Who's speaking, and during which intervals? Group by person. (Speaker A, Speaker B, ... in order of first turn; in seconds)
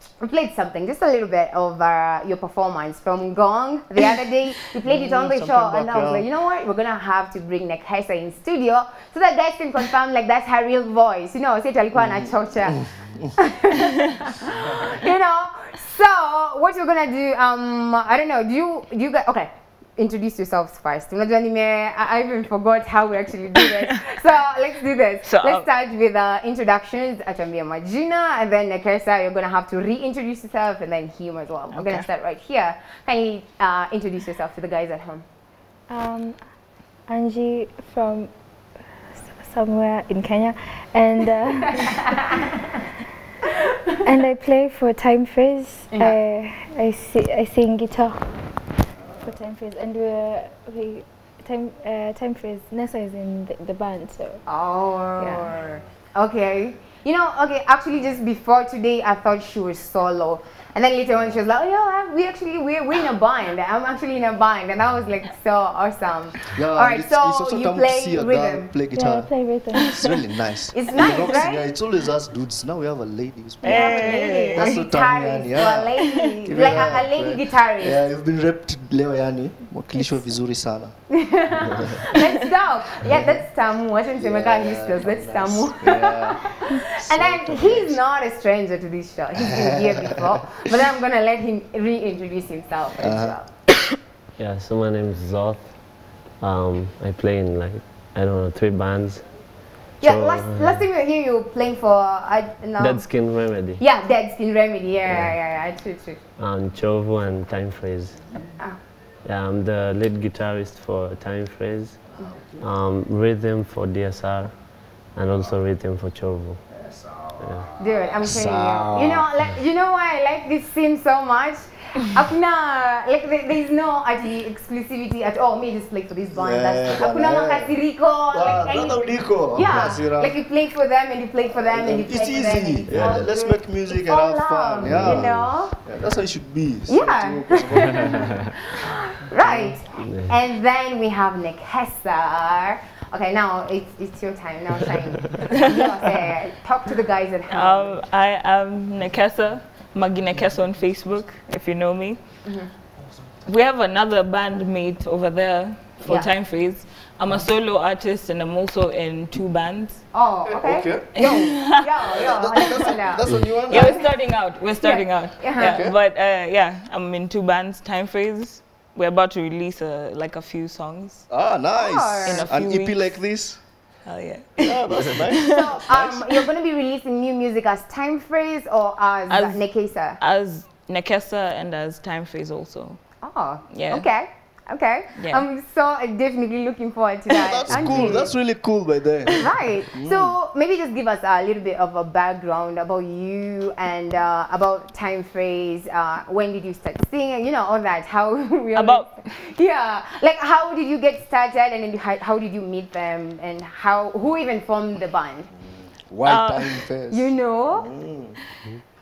Speaker A: 0.2-12.8, 13.3-35.2, 45.9-46.2, 54.5-68.7, 70.7-71.7, 73.6-78.0, 81.1-93.5, 100.0-103.1, 103.8-106.2, 117.8-135.8, 136.9-147.8, 152.4-152.7, 156.0-156.3, 160.1-164.1, 164.8-165.8, 171.8-172.5, 175.4-180.2, 183.2-188.3, 189.3-205.5, 207.1-207.9
Speaker B: 4.8-6.3, 12.9-13.3, 66.5-69.3, 69.8-80.9, 83.1-83.4, 84.2-88.0, 89.3-90.1, 93.0-93.4, 112.2-112.6, 116.8-119.3, 126.3-130.4, 131.6-138.3, 160.4-163.9, 165.6-165.9, 171.3-173.6, 174.6-176.2, 187.3-190.3, 205.6-208.3
Speaker C: 23.6-23.9, 25.2-25.7, 31.7-32.1, 73.6-74.8, 147.5-152.2, 153.4-160.0, 161.1-161.8, 163.7-171.3, 172.2-173.2, 174.0-175.5, 179.3-179.6, 180.2-183.0, 183.7-184.1, 185.2-185.4, 198.7-199.1, 206.2-206.8
Speaker D: 35.9-36.4, 37.1-38.3, 39.1-42.3, 44.0-48.3, 49.2-54.4, 68.9-69.9, 80.0-80.2
Speaker E: 94.4-95.8, 96.4-99.2, 100.0-100.9, 102.8-103.8, 105.1-105.4, 106.4-108.2, 109.2-112.0, 112.6-114.5, 115.1-116.6, 117.4-117.7, 132.9-133.3, 134.8-135.6, 139.4-140.4